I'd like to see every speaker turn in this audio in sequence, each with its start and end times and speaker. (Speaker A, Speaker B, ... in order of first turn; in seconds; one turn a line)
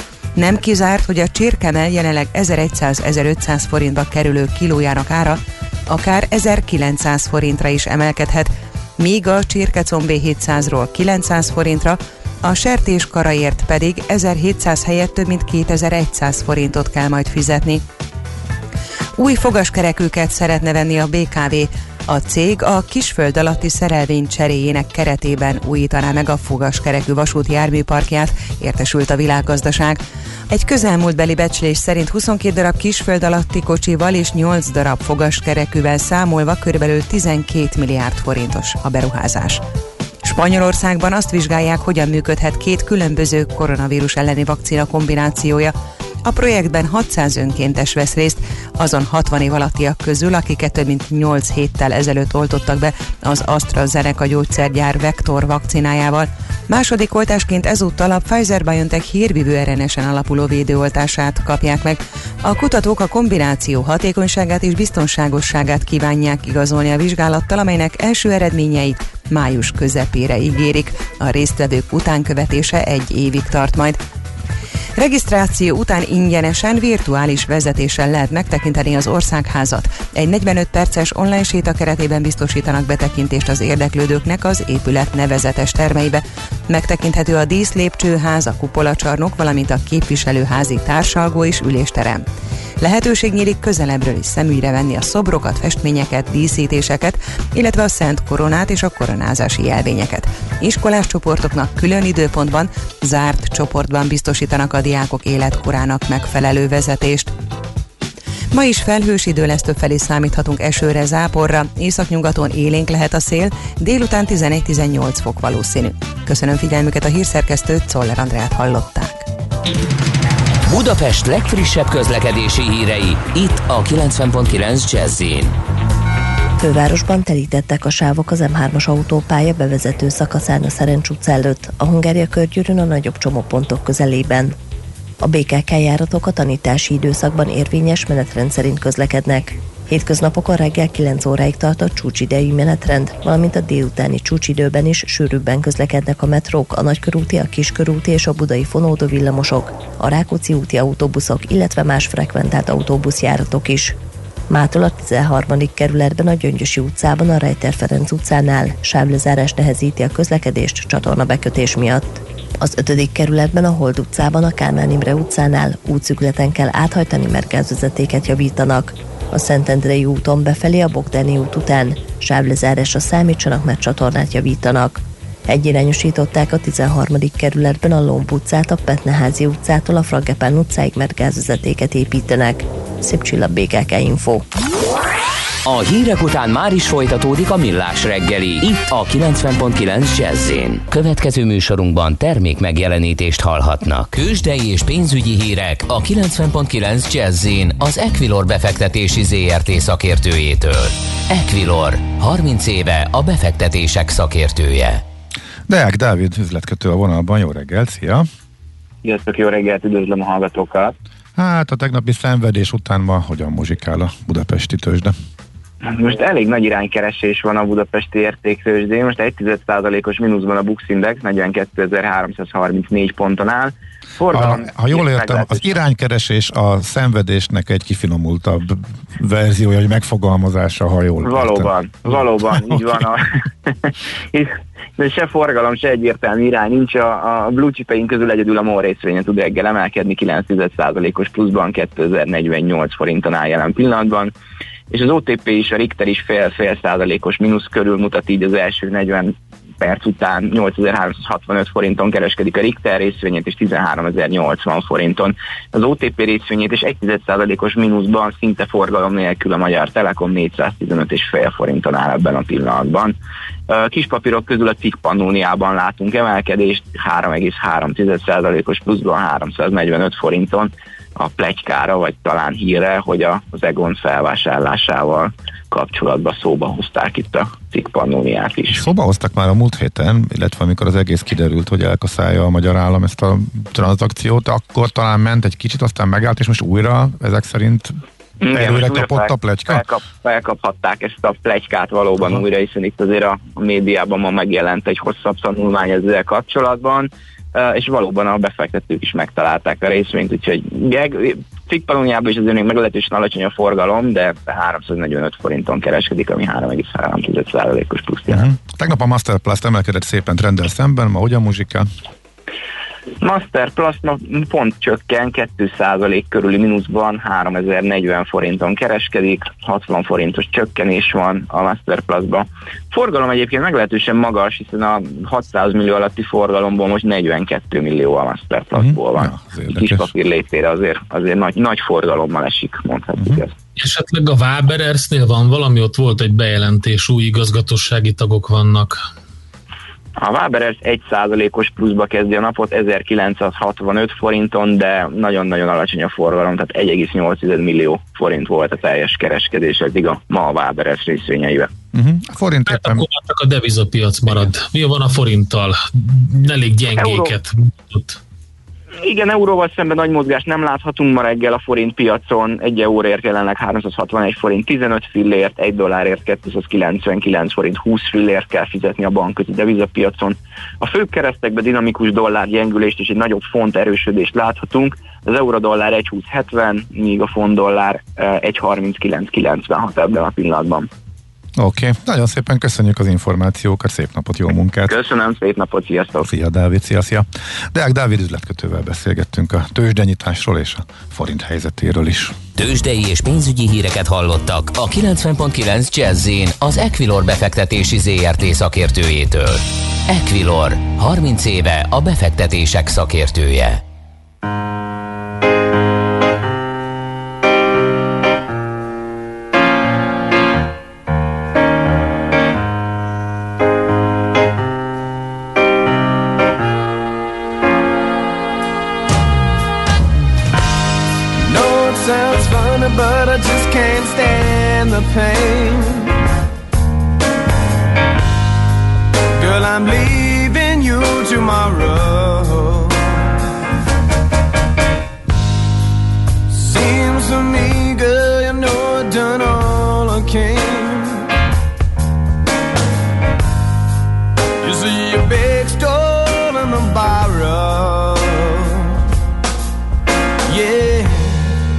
Speaker A: 0.4-17.8
Speaker A: 19.2-39.6
Speaker A: 40.2-45.7
Speaker A: 46.2-74.0
Speaker A: 75.0-92.2
Speaker A: 92.8-107.3
Speaker A: 108.5-119.3
Speaker B: 120.7-125.6
Speaker C: 126.6-134.6
Speaker C: 135.2-153.9
Speaker C: 154.5-184.4
Speaker B: 185.7-205.0
Speaker D: 205.7-208.3
Speaker E: 209.0-211.0
Speaker D: 211.4-215.1
Speaker E: 215.8-225.8
Speaker D: 224.3-233.0
Speaker E: 231.2-244.3
Speaker E: 244.9-263.2
Speaker E: 263.7-278.9
Speaker D: 278.8-288.0
Speaker E: 288.4-308.5
Speaker D: 288.5-289.8
Speaker D: 308.3-311.9
Speaker E: 313.2-333.5
Speaker D: 328.8-330.1
Speaker F: 333.8-339.0
Speaker E: 340.2-351.7
Speaker D: 351.9-353.1
Speaker F: 352.7-358.2
Speaker E: 357.0-357.3
Speaker E: 359.0-380.9
Speaker D: 381.6-384.9
Speaker E: 384.9-386.3
Speaker D: 386.3-392.4
Speaker B: 392.6-403.8
Speaker G: 421.4-426.1
Speaker G: 429.4-433.3
Speaker G: 436.5-441.3
Speaker G: 444.6-449.0
Speaker G: 450.5-451.6